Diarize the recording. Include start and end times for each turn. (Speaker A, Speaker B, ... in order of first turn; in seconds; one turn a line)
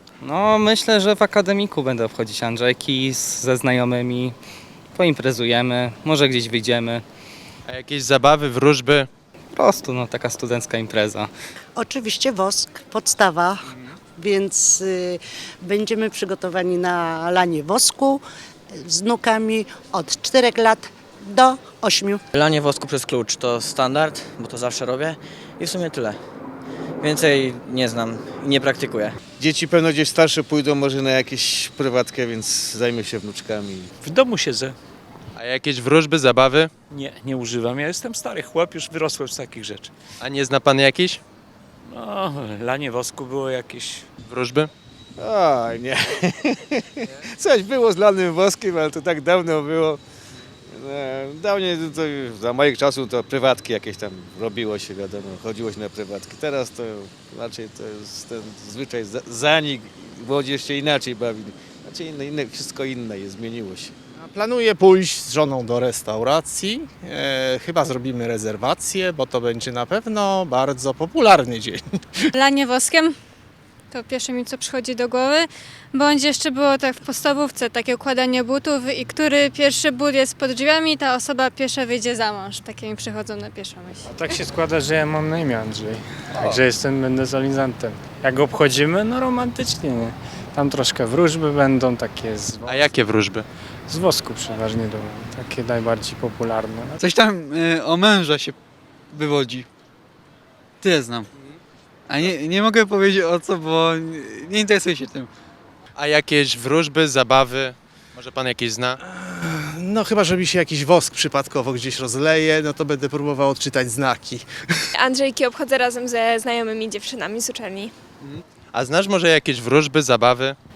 Speaker A: 0.2-4.3
Speaker A: 5.0-7.0
Speaker B: 7.7-9.1
Speaker A: 9.6-11.3
Speaker C: 11.8-13.6
Speaker C: 14.2-18.2
Speaker C: 18.8-22.2
Speaker D: 22.3-26.2
Speaker D: 27.0-29.2
Speaker E: 29.4-33.9
Speaker F: 34.0-34.8
Speaker B: 35.4-36.7
Speaker F: 36.9-39.9
Speaker B: 40.2-41.2
Speaker F: 41.9-44.1
Speaker B: 44.2-44.7
Speaker E: 45.2-50.0
Speaker E: 50.7-63.9
Speaker G: 64.2-71.8
Speaker H: 72.3-73.1
Speaker H: 73.9-84.1
Speaker I: 84.0-93.0
Speaker B: 92.7-93.5
Speaker I: 93.9-97.0
Speaker J: 97.0-98.5
Speaker J: 99.1-99.7
Speaker J: 100.8-101.2
Speaker J: 102.1-105.3
Speaker B: 106.0-109.0
Speaker G: 109.0-114.9
Speaker K: 115.0-117.9
Speaker B: 118.2-120.6